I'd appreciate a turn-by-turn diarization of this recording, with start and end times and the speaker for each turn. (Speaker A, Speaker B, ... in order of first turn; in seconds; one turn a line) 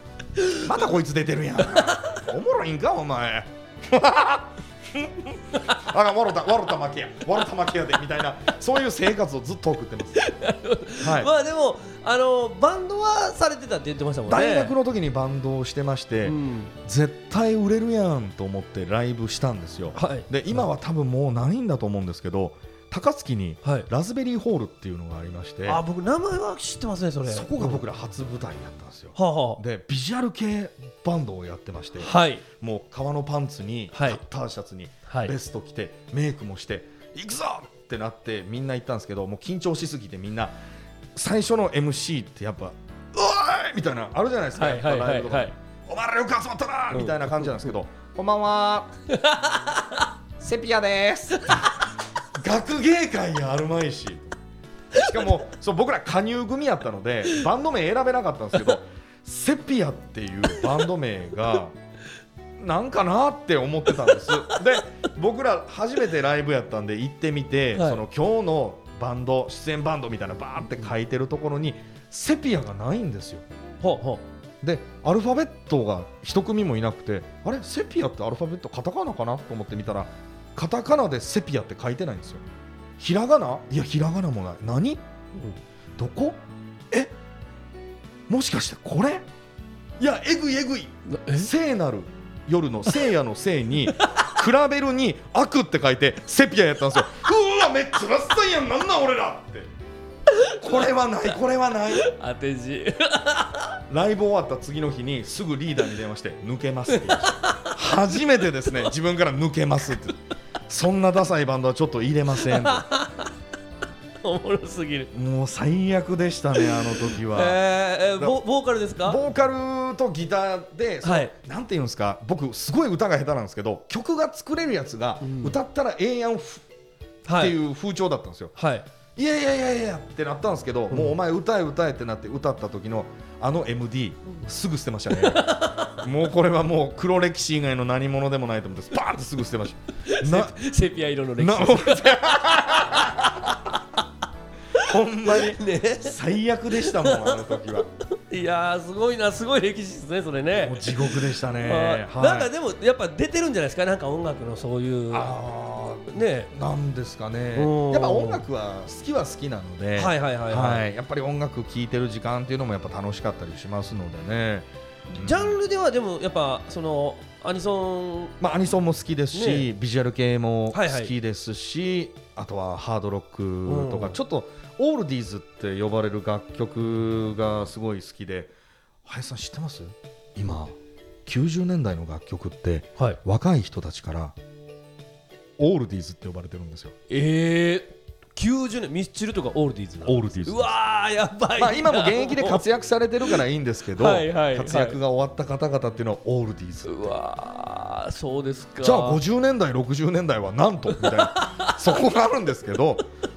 Speaker A: 0.6-10.2
Speaker B: 10.2-14.7
Speaker A: 11.0-11.3
Speaker A: 14.3-25.8
Speaker B: 16.2-16.7
Speaker B: 19.9-20.6
Speaker B: 25.7-27.8
Speaker A: 27.3-40.5
Speaker B: 29.1-29.6
Speaker B: 32.0-32.4
Speaker B: 33.9-34.2
Speaker B: 35.1-35.3
Speaker A: 41.2-48.9
Speaker B: 44.6-45.5
Speaker B: 46.9-47.7
Speaker B: 49.1-50.0
Speaker A: 50.4-51.6
Speaker B: 51.4-51.6
Speaker A: 52.4-54.4
Speaker A: 54.9-61.8
Speaker A: 62.6-73.5
Speaker B: 67.8-68.0
Speaker B: 73.8-74.2
Speaker A: 74.6-82.5
Speaker A: 83.0-85.0
Speaker A: 86.0-86.4
Speaker A: 88.3-89.3
Speaker A: 90.0-99.7
Speaker B: 91.1-91.5
Speaker B: 100.4-100.7
Speaker A: 100.6-102.1
Speaker B: 102.0-103.8
Speaker A: 103.9-112.9
Speaker B: 107.1-107.7
Speaker B: 112.4-113.3
Speaker B: 114.2-115.1
Speaker A: 115.1-117.6
Speaker B: 116.6-119.2
Speaker A: 119.0-126.7
Speaker B: 121.0-121.3
Speaker B: 125.2-125.6
Speaker B: 127.2-127.5
Speaker A: 127.3-128.5
Speaker B: 128.6-128.8
Speaker A: 129.2-140.6
Speaker B: 135.2-135.9
Speaker B: 140.1-143.2
Speaker A: 141.4-143.6
Speaker A: 144.8-147.9
Speaker B: 145.3-146.2
Speaker B: 146.8-147.6
Speaker B: 148.2-155.3
Speaker A: 150.6-152.5
Speaker A: 155.1-165.6
Speaker B: 156.1-156.5
Speaker B: 157.6-158.4
Speaker B: 160.0-160.8
Speaker B: 165.1-168.3
Speaker A: 168.4-178.5
Speaker B: 169.3-169.7
Speaker B: 170.7-171.1
Speaker B: 173.7-174.2
Speaker A: 179.1-184.3
Speaker A: 185.6-186.9
Speaker B: 187.1-192.6
Speaker A: 190.0-190.7
Speaker A: 191.6-197.1
Speaker B: 194.0-195.0
Speaker B: 196.9-199.2
Speaker A: 198.8-203.1
Speaker B: 201.0-201.9